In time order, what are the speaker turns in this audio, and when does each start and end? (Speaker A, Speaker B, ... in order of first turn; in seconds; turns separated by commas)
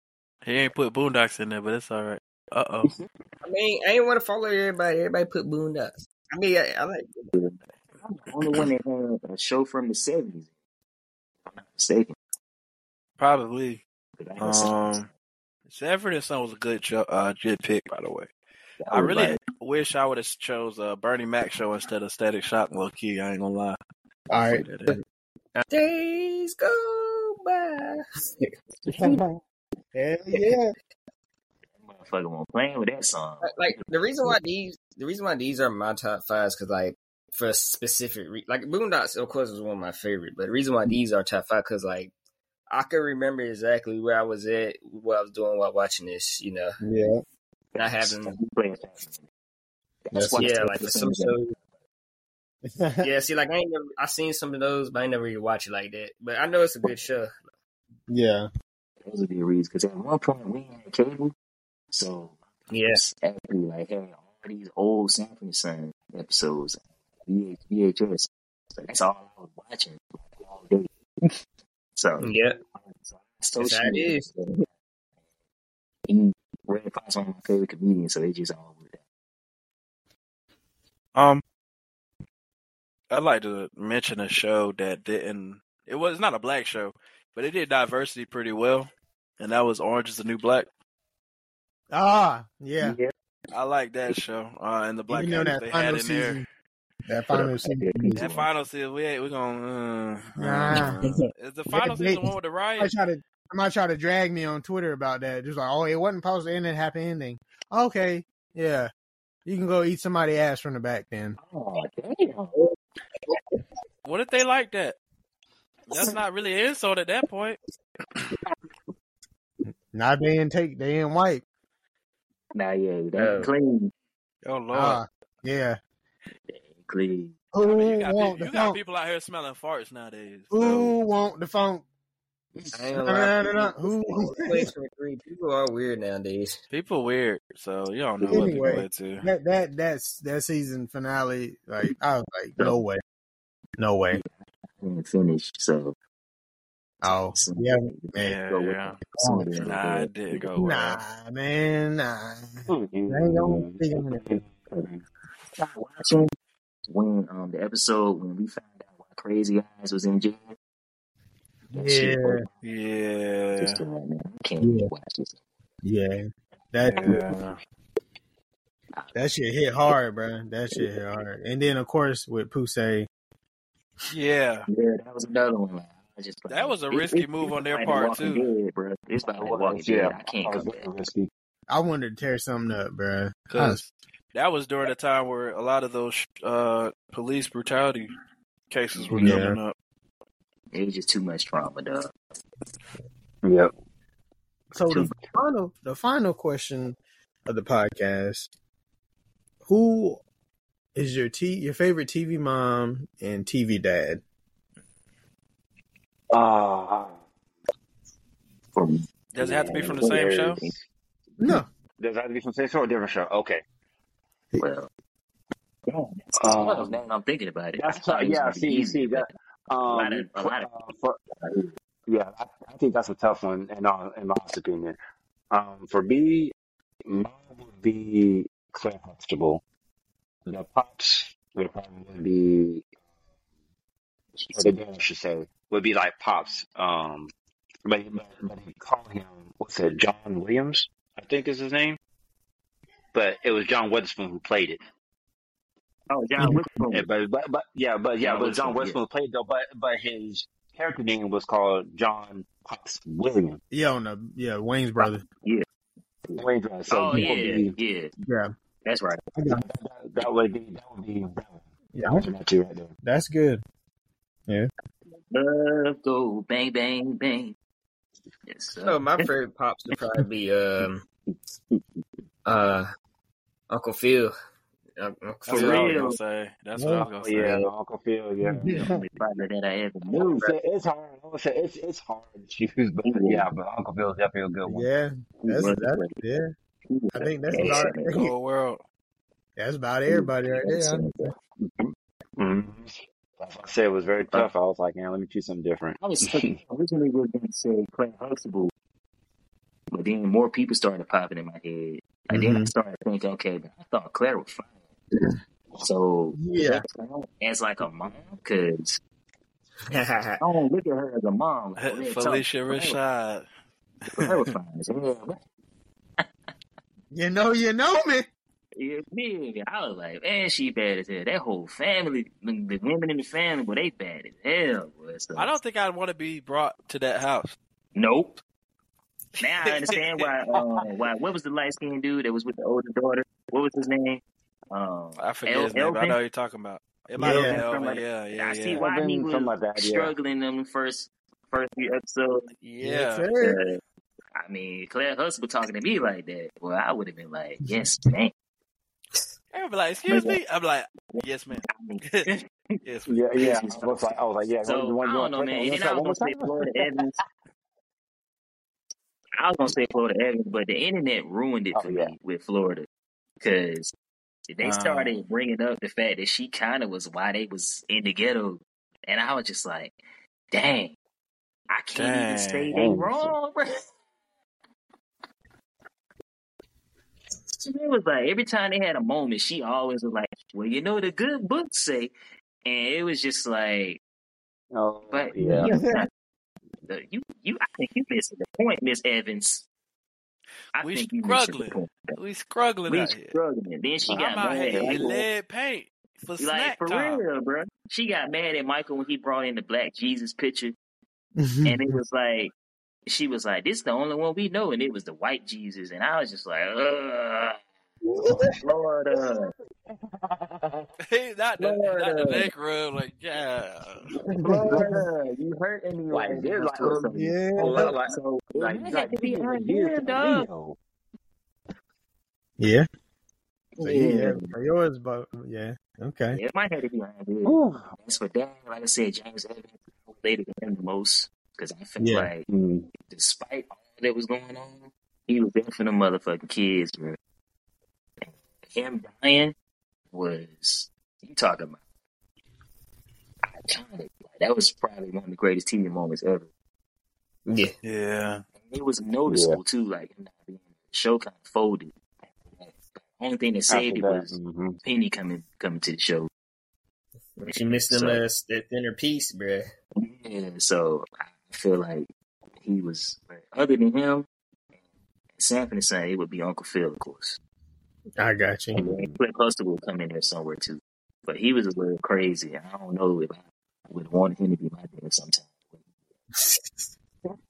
Speaker A: 0.4-2.9, Speaker B: 3.4-7.3, Speaker C: 7.3-10.5, Speaker C: 11.5-12.2, Speaker A: 13.2-13.8, Speaker C: 14.2-15.0, Speaker A: 14.4-15.1, Speaker A: 15.7-18.3, Speaker C: 18.8-19.4, Speaker A: 18.9-23.8, Speaker D: 24.3-25.0, Speaker A: 24.4-25.0, Speaker B: 25.6-29.2, Speaker D: 28.9-29.4, Speaker D: 29.9-30.7, Speaker C: 31.8-33.8, Speaker B: 33.4-42.1, Speaker B: 42.7-46.8, Speaker D: 46.8-47.2, Speaker B: 47.8-48.4, Speaker C: 48.0-49.2, Speaker C: 50.1-51.5, Speaker D: 50.1-50.5, Speaker B: 50.4-51.5, Speaker D: 52.6-53.1, Speaker B: 53.0-57.3, Speaker D: 58.1-58.5, Speaker C: 59.0-61.3, Speaker C: 61.9-70.9, Speaker B: 62.7-63.0, Speaker C: 72.0-74.6, Speaker B: 72.2-72.6, Speaker B: 73.6-74.6, Speaker C: 76.1-79.0, Speaker A: 81.1-81.4, Speaker A: 83.1-90.7, Speaker D: 91.9-93.0, Speaker C: 92.8-93.1, Speaker A: 93.5-96.4, Speaker D: 95.1-96.4, Speaker D: 97.1-98.3, Speaker C: 97.3-98.4, Speaker A: 98.1-102.9, Speaker D: 100.3-101.0, Speaker D: 101.7-108.9, Speaker D: 109.5-111.4, Speaker C: 111.4-112.5, Speaker A: 114.0-115.0, Speaker A: 115.9-117.6, Speaker D: 119.9-121.4, Speaker C: 122.5-123.9, Speaker B: 123.2-123.5, Speaker A: 124.4-125.0, Speaker D: 124.7-125.8, Speaker C: 126.5-127.3, Speaker D: 127.5-128.8, Speaker A: 127.6-130.9, Speaker D: 130.5-131.8, Speaker B: 132.7-136.6, Speaker D: 133.0-134.7, Speaker A: 136.7-139.3, Speaker D: 138.3-143.0, Speaker D: 143.8-144.2, Speaker C: 144.8-145.9, Speaker D: 147.0-148.3, Speaker C: 147.3-150.1, Speaker A: 148.2-149.0, Speaker D: 149.2-149.6, Speaker A: 149.6-151.0, Speaker D: 150.3-154.4, Speaker E: 152.7-155.0, Speaker C: 155.6-156.3, Speaker C: 156.9-160.6, Speaker D: 161.7-162.4, Speaker C: 161.7-162.5, Speaker A: 162.6-163.8, Speaker C: 163.6-165.4, Speaker D: 164.6-164.9, Speaker D: 165.8-167.3, Speaker C: 166.8-167.2, Speaker A: 167.0-167.6, Speaker D: 169.1-173.1, Speaker A: 174.1-174.7, Speaker C: 174.7-180.8, Speaker A: 176.5-178.4, Speaker E: 179.3-181.3, Speaker D: 181.7-183.8, Speaker A: 183.5-188.1, Speaker A: 188.7-189.7, Speaker D: 189.2-189.6, Speaker C: 190.7-192.1, Speaker E: 193.4-193.7, Speaker D: 194.7-198.5, Speaker D: 199.6-200.2, Speaker D: 200.9-204.2, Speaker E: 206.3-207.2, Speaker C: 208.7-209.0, Speaker A: 209.3-210.6, Speaker E: 209.4-210.8, Speaker C: 209.6-210.7, Speaker D: 211.4-211.7, Speaker E: 212.0-213.6, Speaker C: 214.6-214.9, Speaker C: 215.9-219.3, Speaker E: 216.3-217.0, Speaker E: 217.8-221.2, Speaker C: 219.9-220.7, Speaker C: 221.4-221.7, Speaker E: 222.1-225.0, Speaker E: 225.5-226.5, Speaker E: 227.1-229.6, Speaker E: 230.5-232.8, Speaker C: 234.4-234.7, Speaker E: 234.6-237.3, Speaker E: 237.8-242.0, Speaker E: 243.1-244.8, Speaker C: 246.1-247.1, Speaker E: 246.9-253.6, Speaker C: 248.2-249.0, Speaker D: 253.7-255.2, Speaker C: 255.0-255.6, Speaker C: 256.3-258.1, Speaker E: 256.4-257.8, Speaker C: 258.9-259.2, Speaker D: 259.4-259.6, Speaker E: 259.5-262.9, Speaker D: 261.9-262.3, Speaker D: 263.0-263.6, Speaker C: 265.3-267.6, Speaker C: 268.5-269.3, Speaker B: 268.8-271.0, Speaker B: 272.4-272.9, Speaker B: 273.7-274.3, Speaker B: 275.0-276.0, Speaker A: 275.5-277.6, Speaker C: 275.5-276.2, Speaker D: 276.8-277.1, Speaker E: 277.2-279.1, Speaker B: 277.4-277.7, Speaker D: 278.4-278.9, Speaker C: 278.7-280.5, Speaker E: 280.1-284.9, Speaker C: 283.0-283.5, Speaker D: 284.6-286.5, Speaker C: 285.4-286.1, Speaker C: 286.9-288.1, Speaker D: 287.1-288.3, Speaker E: 287.6-287.8, Speaker A: 288.1-288.8, Speaker D: 289.6-291.0, Speaker C: 290.1-291.3, Speaker E: 291.6-296.6, Speaker C: 296.0-298.7, Speaker C: 299.9-304.7, Speaker D: 302.3-302.7, Speaker C: 305.8-309.0, Speaker D: 306.4-306.8, Speaker B: 309.9-310.4, Speaker C: 310.4-313.0, Speaker A: 311.8-313.4, Speaker A: 314.1-314.5, Speaker C: 314.1-315.4, Speaker D: 317.1-318.3, Speaker C: 318.8-325.5, Speaker A: 325.4-327.6, Speaker C: 327.9-328.4, Speaker C: 329.4-336.2, Speaker A: 329.6-330.3, Speaker E: 330.6-330.9, Speaker A: 335.2-338.8, Speaker D: 337.2-337.6, Speaker C: 337.2-342.4, Speaker E: 338.7-340.1, Speaker A: 342.8-343.3, Speaker D: 342.8-343.6, Speaker C: 343.4-343.8, Speaker C: 344.4-348.3, Speaker A: 349.5-352.3, Speaker C: 350.1-350.4, Speaker C: 351.1-352.8, Speaker A: 352.8-353.1, Speaker E: 353.1-356.9, Speaker C: 353.4-357.2, Speaker C: 359.4-362.9, Speaker E: 361.7-362.1, Speaker C: 363.4-363.9, Speaker C: 364.5-369.9, Speaker A: 364.6-365.2, Speaker C: 370.5-370.9, Speaker C: 371.7-373.8, Speaker A: 371.9-372.7, Speaker E: 372.7-373.4, Speaker C: 377.5-382.1, Speaker C: 382.6-384.0, Speaker E: 384.7-385.7, Speaker C: 385.1-386.1, Speaker D: 385.4-385.9, Speaker C: 386.9-389.6, Speaker C: 390.7-392.2, Speaker A: 390.8-393.4, Speaker C: 392.9-395.1, Speaker E: 394.0-395.2, Speaker A: 394.1-397.2, Speaker C: 396.4-400.7, Speaker D: 401.4-401.9, Speaker C: 401.6-402.5, Speaker C: 403.1-407.6, Speaker D: 408.1-408.5, Speaker C: 408.6-409.5, Speaker E: 409.9-410.9, Speaker A: 411.1-414.1, Speaker C: 411.6-412.5, Speaker C: 414.4-420.5, Speaker D: 414.4-415.0, Speaker E: 416.1-420.8, Speaker D: 417.0-417.9, Speaker D: 422.6-422.9, Speaker C: 423.8-424.5, Speaker D: 423.8-426.4, Speaker C: 426.3-432.4, Speaker E: 427.4-427.9, Speaker D: 432.0-432.3, Speaker E: 432.5-432.9, Speaker C: 433.0-437.2, Speaker C: 438.2-439.5, Speaker C: 440.1-441.8, Speaker C: 443.5-446.5, Speaker B: 447.5-447.7, Speaker A: 447.8-448.4, Speaker C: 448.6-451.9, Speaker E: 449.3-449.6, Speaker C: 452.4-454.3, Speaker E: 453.7-454.8, Speaker C: 454.8-456.3, Speaker B: 457.4-459.6, Speaker C: 457.4-458.2, Speaker C: 460.0-464.3, Speaker C: 465.4-467.4, Speaker D: 468.2-468.8, Speaker E: 468.7-469.2, Speaker C: 468.8-475.6, Speaker D: 476.4-476.6